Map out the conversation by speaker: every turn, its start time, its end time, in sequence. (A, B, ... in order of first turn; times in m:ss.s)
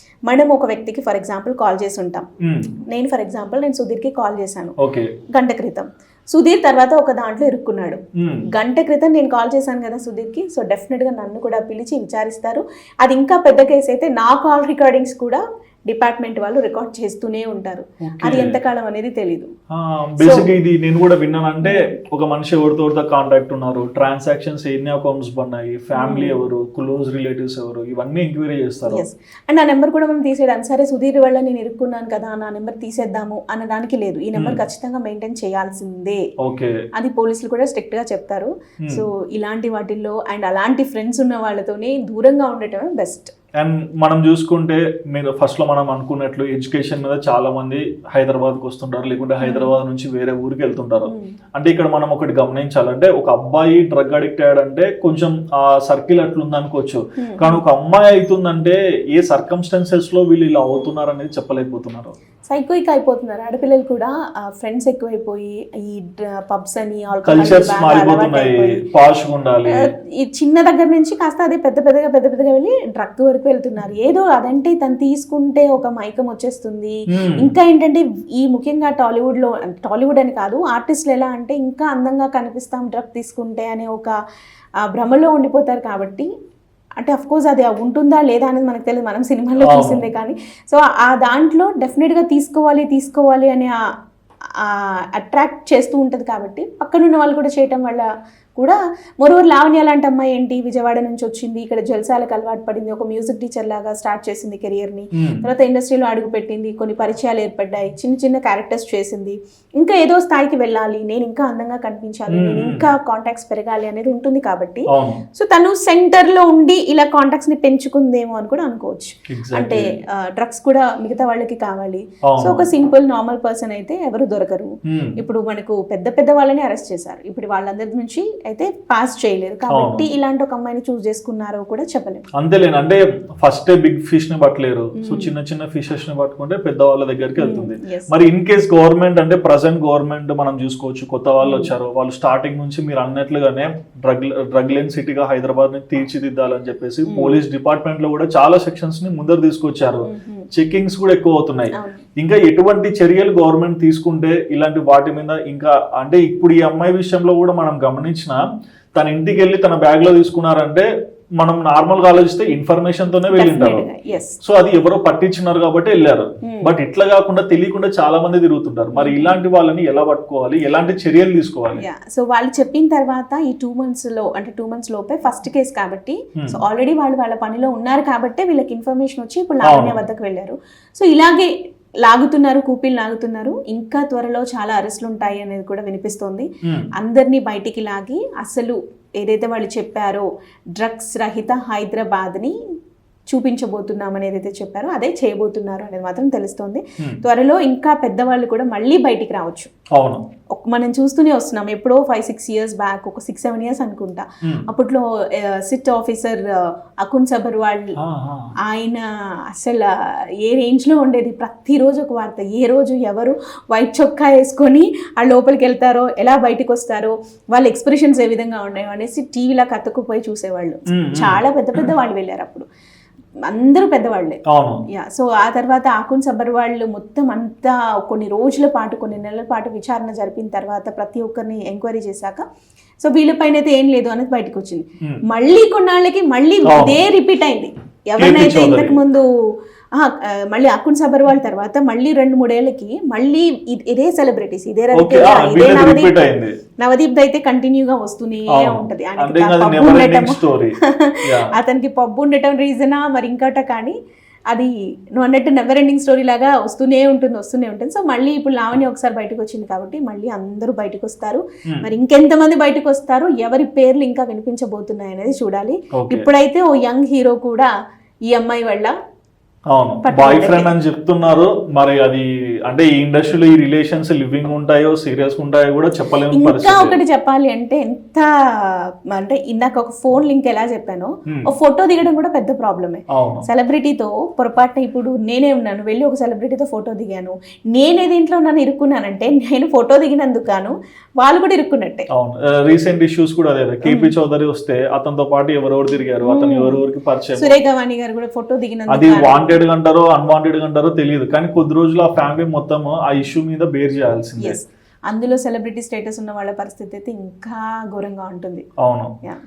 0:00.3-0:02.3 A
0:02.4-0:02.7 B
0:02.9-0:04.8 A
0:04.8-0:05.1 B
0:05.3-0:08.0 A
0:08.2-0:08.5 B
0:08.5-0:19.5 A
0:18.0-0:18.6 B
0:19.7-0:29.0 B
0:20.2-0:20.5 A
0:26.0-0:26.4 A
0:28.9-0:36.2 A
0:36.4-0:36.7 B
0:37.0-0:43.3 A
0:43.6-1:02.1 B
0:49.4-0:49.7 A
0:57.2-0:57.6 A
1:02.5-1:08.8 A
1:07.2-1:09.9 B
1:09.7-1:24.1 A
1:17.2-1:17.5 B
1:24.8-1:26.3 A
1:27.0-1:33.7 A
1:29.6-1:30.0 B
1:34.6-1:54.8 A
1:45.2-1:45.4 B
1:52.3-1:52.9 B
1:54.9-1:55.2 B
1:55.4-2:12.2 A
1:59.3-1:59.9 B
2:02.2-2:02.6 B
2:04.9-2:05.2 B
2:09.7-2:10.1 B
2:12.4-2:38.4 B
2:15.0-2:15.3 A
2:17.4-2:18.1 A
2:21.4-2:21.7 A
2:27.1-2:27.4 A
2:30.1-2:30.5 A
2:31.7-2:32.0 A
2:39.0-2:40.9 B
2:41.4-2:43.9 B
2:43.3-2:44.4 A
2:44.4-2:51.8 B
2:46.4-2:46.7 A
2:49.0-2:49.4 A
2:51.8-3:01.5 A
2:59.6-3:00.0 B
3:02.0-3:10.2 A
3:10.8-3:12.6 A
3:13.3-3:19.7 A
3:19.9-3:20.2 B
3:20.6-3:28.0 A
3:28.0-3:28.5 B
3:28.6-3:29.9 A
3:30.4-3:42.6 A
3:40.9-3:41.9 B
3:43.5-3:52.4 A
3:44.5-3:44.8 B
3:53.0-3:59.3 A
3:56.6-3:57.0 B
3:58.2-3:59.0 B
4:00.0-4:06.2 A
4:04.9-4:06.6 B
4:06.8-4:14.0 A
4:08.5-4:11.5 B
4:14.5-4:27.7 A
4:26.0-4:26.2 B
4:28.3-4:28.9 A
4:29.7-4:37.0 B
4:30.0-4:30.7 A
4:36.3-4:52.1 A
4:43.1-4:43.5 B
4:52.1-4:57.6 B
4:53.8-4:54.1 A
4:56.2-4:56.8 A
4:57.4-4:59.6 A
4:58.9-5:04.6 B
5:04.4-5:08.6 A
5:08.8-5:09.1 B